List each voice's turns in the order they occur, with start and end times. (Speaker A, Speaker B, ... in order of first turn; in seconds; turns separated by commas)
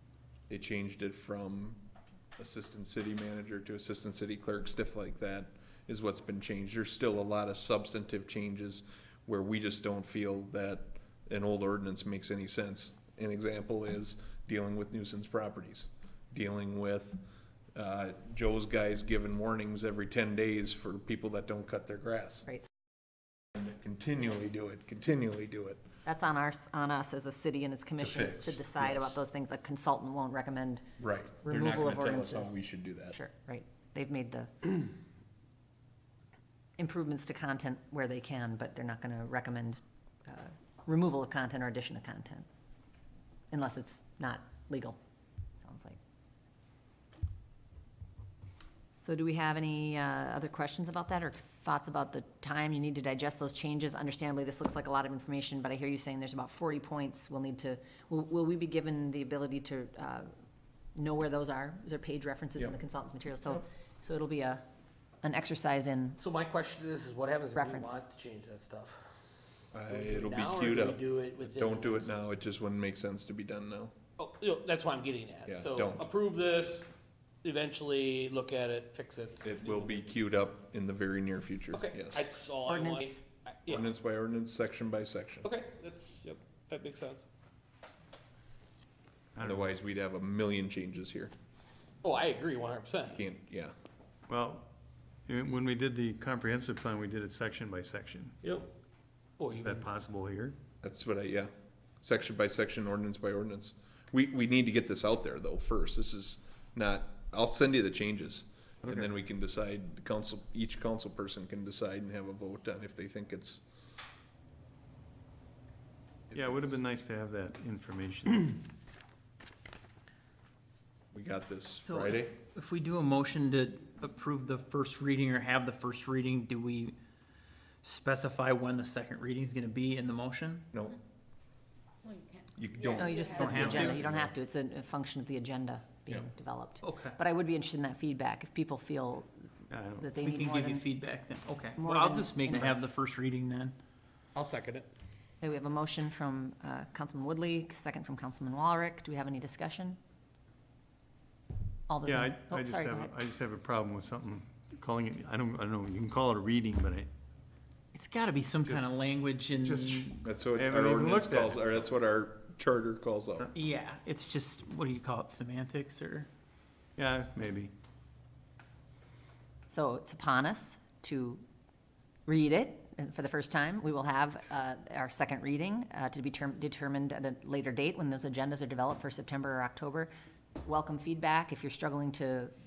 Speaker A: 0.5-1.8, Speaker A: 2.4-17.2, Speaker A: 17.7-22.5, Speaker A: 23.5-25.8, Speaker B: 26.1-30.8, Speaker A: 28.0-29.2, Speaker A: 31.0-33.2, Speaker B: 31.4-32.5, Speaker B: 33.1-34.9, Speaker B: 36.8-42.5, Speaker B: 43.5-45.0, Speaker B: 45.6-46.0, Speaker B: 48.9-60.3, Speaker B: 60.9-64.6, Speaker B: 65.2-66.2, Speaker C: 66.2-69.1, Speaker B: 67.5-67.9, Speaker A: 69.7-73.9, Speaker C: 69.9-72.1, Speaker C: 74.2-76.9, Speaker A: 75.5-76.1, Speaker C: 77.4-80.0, Speaker A: 79.4-82.4, Speaker C: 81.7-83.9, Speaker B: 82.6-83.2, Speaker A: 83.7-85.5, Speaker C: 85.4-87.2, Speaker A: 89.4-91.3, Speaker C: 92.0-93.2, Speaker A: 93.1-93.7, Speaker D: 94.3-94.7, Speaker D: 95.2-98.4, Speaker C: 98.4-98.7, Speaker C: 99.4-99.8, Speaker D: 99.5-100.6, Speaker A: 100.8-101.5, Speaker A: 102.0-113.6, Speaker D: 108.8-109.1, Speaker A: 116.3-116.6, Speaker D: 116.3-118.6, Speaker A: 121.1-122.3, Speaker E: 121.8-126.9, Speaker E: 127.8-130.7, Speaker A: 130.7-131.0, Speaker A: 132.5-134.3, Speaker B: 132.9-140.8, Speaker E: 133.3-134.1, Speaker E: 136.8-137.2, Speaker D: 139.7-140.1, Speaker E: 140.2-143.8, Speaker B: 141.8-142.8, Speaker C: 144.3-144.9, Speaker B: 145.4-150.0, Speaker B: 151.9-153.1, Speaker D: 152.0-157.1, Speaker E: 157.9-160.2, Speaker D: 159.6-161.8, Speaker A: 160.2-163.5, Speaker E: 163.5-166.3, Speaker D: 167.0-167.7, Speaker B: 169.7-171.4, Speaker B: 172.3-182.5